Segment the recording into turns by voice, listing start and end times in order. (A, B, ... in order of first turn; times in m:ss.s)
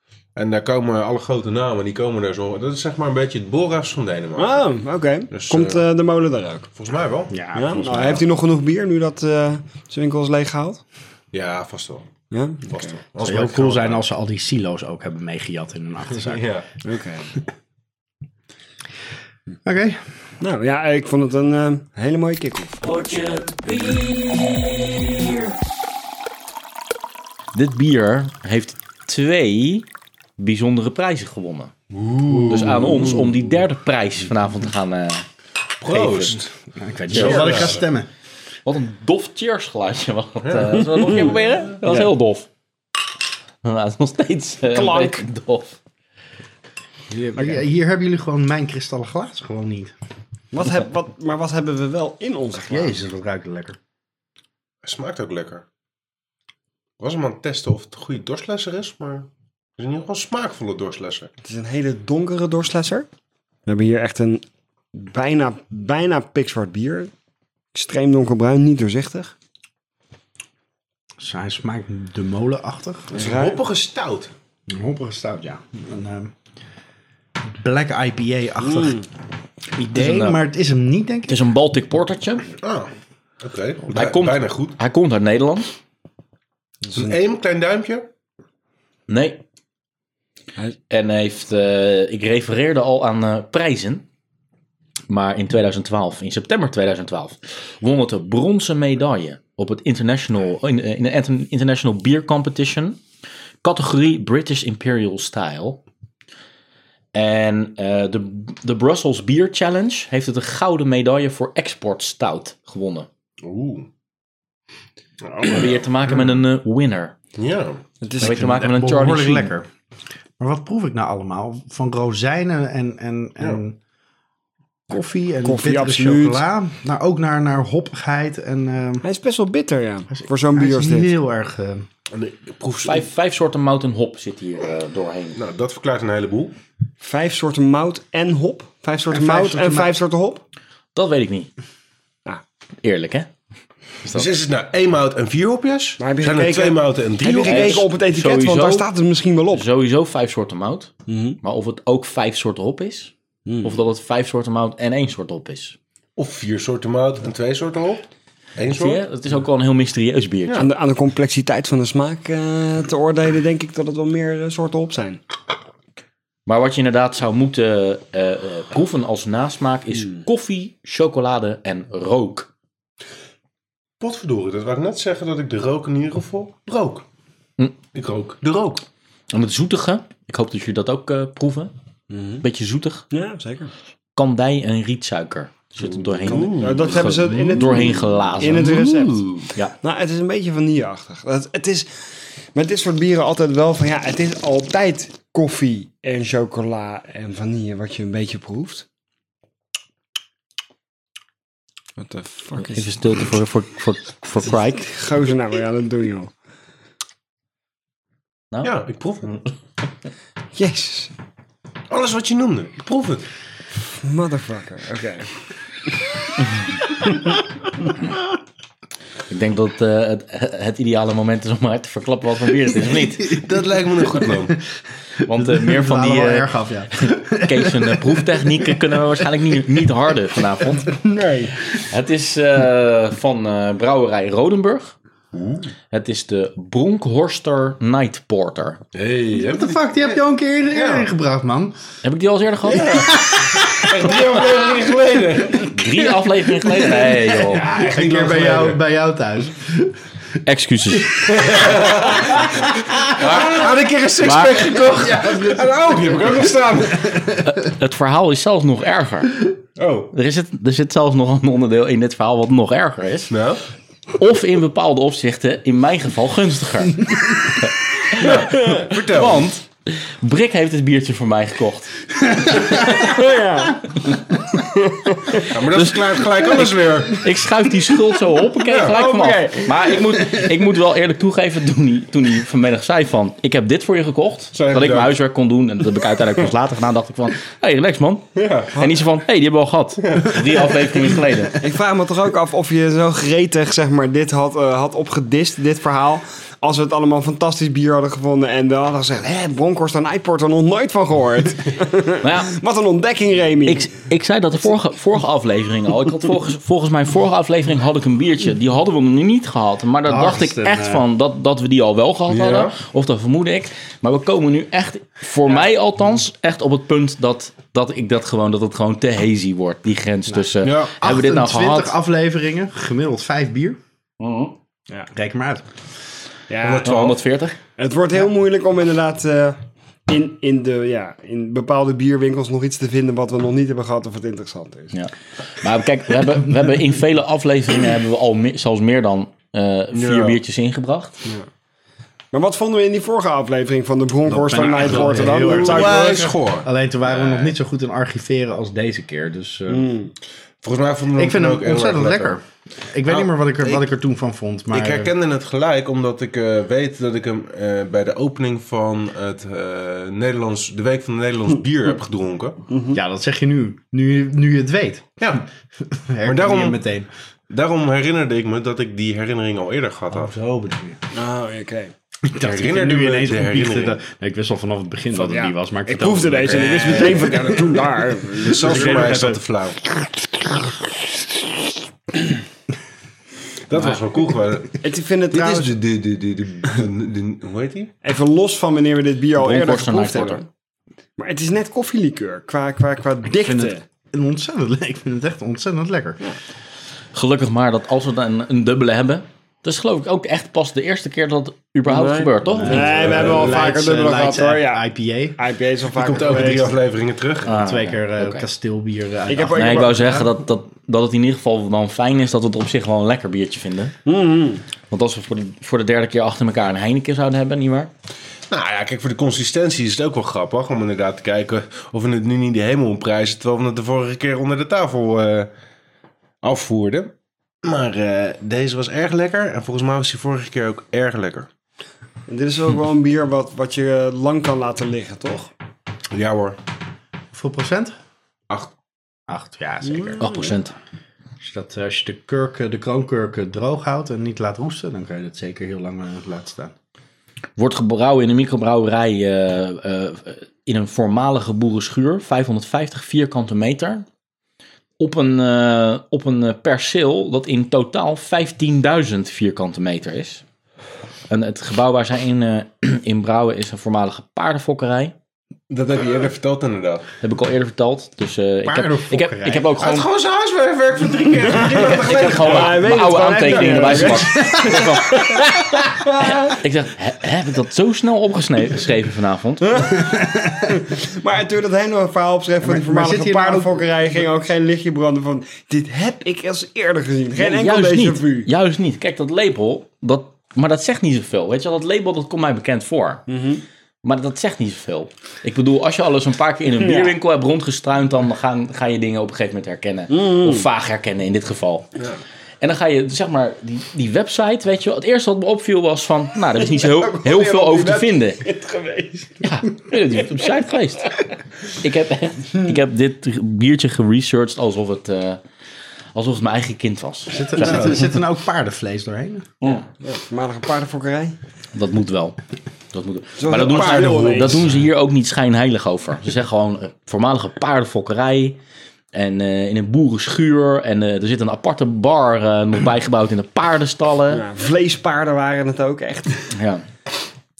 0:00.4-0:04.7 A
0:04.4-0:06.7 B
0:05.3-0:05.8 A
0:06.8-0:08.2 A
0:07.3-0:08.2 C
0:07.5-0:10.8 B
0:11.3-0:12.1 A
0:12.3-0:13.0 B
0:12.7-0:14.0 A
0:13.2-0:16.4 C
0:16.2-0:16.6 A
0:16.8-0:17.3 B
0:19.6-0:20.0 C
0:20.4-0:22.8 B
0:22.8-0:25.6 D
0:27.5-0:29.8 D
0:30.4-0:31.7 D
0:31.9-0:33.3 A
0:32.5-0:35.2 D
0:35.8-0:36.4 A
0:35.9-0:36.3 D
0:36.0-0:38.1 C
0:37.1-0:37.8 A
0:37.1-0:37.6 D
0:38.6-0:42.5 D
0:40.4-0:41.6 A
0:43.6-0:45.8 D
0:44.7-0:45.2 B
0:47.1-0:49.9 C
0:47.4-0:47.6 B
0:50.5-0:53.0 B
0:52.7-0:53.8 C
0:54.8-0:55.6 A
0:57.0-1:01.3 A
1:01.4-1:03.1 B
1:03.6-1:04.4 B
1:04.9-1:07.1 B
1:07.7-1:09.3 B
1:11.2-1:13.2 C
1:13.1-1:14.3 A
1:13.1-1:13.6 B
1:14.7-1:16.3 C
1:17.5-1:19.0 C
1:18.7-1:19.0 B
1:19.7-1:21.4 C
1:20.0-1:20.4 D
1:21.3-1:22.5 D
1:22.6-1:22.9 A
1:23.4-1:24.8 A
1:23.9-1:25.7 D
1:26.8-1:27.2 B
1:26.9-1:28.1 A
1:29.1-1:29.4 D
1:30.9-1:34.0 D
1:35.1-1:43.0 D
1:43.6-1:45.8 D
1:47.1-1:53.1 D
1:53.4-1:53.9 A
1:55.2-1:55.8 A
1:55.4-1:57.1 D
1:57.4-1:57.8 A
1:58.0-1:58.6 B
1:58.2-1:59.7 C
1:58.2-1:59.5 D
2:00.4-2:03.8 C
2:04.9-2:09.0 C
2:05.4-2:06.4 B
2:09.0-2:11.1 B
2:10.1-2:11.9 C
2:12.1-2:13.1 A
2:12.8-2:15.4 D
2:15.4-2:16.5 A
2:17.0-2:20.4 B
2:19.1-2:19.9 C
2:20.9-2:21.5 D
2:22.8-2:23.3 D
2:24.1-2:27.9 A
2:26.0-2:29.6 B
2:27.3-2:28.9 D
2:29.5-2:35.8 D
2:31.1-2:31.4 B
2:33.4-2:33.8 B
2:36.2-2:38.0 A
2:38.6-2:39.0 A
2:38.7-2:40.7 D
2:40.6-2:45.2 B
2:46.5-2:52.5 D
2:54.0-2:57.0 A
2:57.9-2:58.8 A
2:59.3-3:01.7 D
3:02.1-3:02.4 B
3:02.4-3:03.0 D
3:03.1-3:03.7 B
3:04.2-3:09.7 D
3:06.1-3:07.8 A
3:06.3-3:18.8 B
3:22.0-3:22.9 B
3:22.6-3:24.9 D
3:24.8-3:26.3 B
3:28.6-3:29.3 A
3:30.5-3:31.1 B
3:31.9-3:33.3 A
3:34.0-3:35.3 B
3:39.3-3:43.4 D
3:43.2-3:44.6 A
3:45.2-3:46.5 D
3:45.3-3:48.8 C
3:47.0-3:51.0 D
3:51.1-3:51.5 B
3:51.8-3:54.9 D
3:55.3-3:55.7 A
3:55.9-3:58.8 D
3:58.9-4:00.0 A
3:59.3-4:01.8 C
4:00.7-4:01.1 A
4:02.0-4:02.9 D
4:02.7-4:05.8 A
4:02.9-4:04.7 C
4:05.7-4:07.7 D
4:06.9-4:10.0 C
4:07.5-4:08.8 A
4:10.4-4:11.3 D
4:11.2-4:13.0 C
4:11.3-4:17.2 A
4:14.2-4:14.6 D
4:14.9-4:16.3 C
4:16.9-4:17.4 C
4:17.4-4:19.4 D
4:19.8-4:20.1 A
4:20.1-4:23.3 D
4:23.3-4:23.6 A
4:24.1-4:31.9 D
4:28.2-4:29.5 A
4:32.6-4:35.5 B
4:35.4-4:37.2 A
4:35.7-4:51.6 D
4:38.6-4:39.0 A
4:38.9-4:39.9 B
4:44.5-4:45.1 A
4:48.4-4:48.8 A
4:50.0-4:50.4 A
4:51.6-5:03.9 B
5:02.2-5:02.5 D
5:03.6-5:21.9 D
5:10.0-5:11.0 C
5:12.3-5:12.8 A
5:20.3-5:23.8 C
5:20.6-5:20.9 A
5:24.2-5:24.5 D
5:25.1-5:25.6 C
5:26.5-5:26.9 B
5:26.6-5:27.2 A
5:26.8-5:27.6 D
5:27.8-5:34.9 B
5:34.9-5:41.1 D
5:39.9-5:40.4 A
5:42.3-5:46.3 B
5:44.2-5:49.9 C
5:44.8-5:47.5 A
5:49.7-5:50.1 B
5:50.6-5:52.4 A
5:51.1-5:55.1 C
5:53.1-5:53.9 A
5:54.7-6:02.6 A
6:02.7-6:03.0 B
6:02.9-6:05.2 C
6:05.2-6:05.4 A
6:05.8-6:07.1 C
6:06.2-6:06.8 A
6:07.5-6:10.3 A
6:10.1-6:11.0 C
6:11.1-6:11.9 B
6:12.2-6:17.8 C
6:12.4-6:14.0 A
6:15.1-6:18.9 B
6:16.5-6:17.4 A
6:18.4-6:19.8 A
6:18.4-6:19.4 C
6:23.7-6:27.9 A
6:24.8-6:25.7 B
6:28.0-6:30.5 B
6:29.4-6:30.4 D
6:31.2-6:33.8 B
6:33.3-6:36.2 C
6:37.1-6:43.3 D
6:41.9-6:44.8 B
6:42.5-6:45.4 C
6:42.7-6:43.7 A
6:45.4-6:46.8 B
6:46.0-6:47.5 A
6:47.4-6:50.3 C
6:47.4-6:48.4 D
6:49.3-6:50.2 B
6:49.5-6:53.9 D
6:54.0-6:54.6 B
6:54.9-6:57.9 D
6:58.5-7:05.5 A
7:06.4-7:11.5 A
7:12.3-7:15.5 B
7:16.1-7:16.6 A
7:17.3-7:17.9 C
7:19.3-7:20.5 C
7:19.9-7:20.4 B
7:20.2-7:20.7 D
7:21.4-7:26.7 C
7:27.6-7:34.0 D
7:35.0-7:40.4 D
7:41.3-7:45.1 D
7:45.7-7:47.1 A
7:47.2-7:50.1 D
7:48.6-7:49.7 C
7:49.8-7:54.2 A
7:51.7-7:56.6 B
7:51.7-7:59.9 D
7:54.3-7:55.0 C
7:59.7-8:00.0 B
8:00.0-8:00.8 C
8:00.7-8:08.5 B
8:02.6-8:04.2 C
8:07.4-8:13.2 D
8:13.3-8:13.6 B
8:14.0-8:21.9 D
8:16.8-8:17.2 B
8:20.1-8:20.6 B
8:22.6-8:28.4 D
8:26.6-8:29.4 B
8:29.4-8:31.1 D
8:31.7-8:35.4 D
8:36.1-8:38.0 D
8:37.3-8:39.5 C
8:40.0-8:41.4 B
8:41.7-8:42.4 D
8:42.9-8:48.6 D
8:43.4-8:44.7 B
8:43.6-8:44.7 A
8:49.1-8:54.4 D
8:54.3-8:56.4 B
8:56.5-8:56.8 D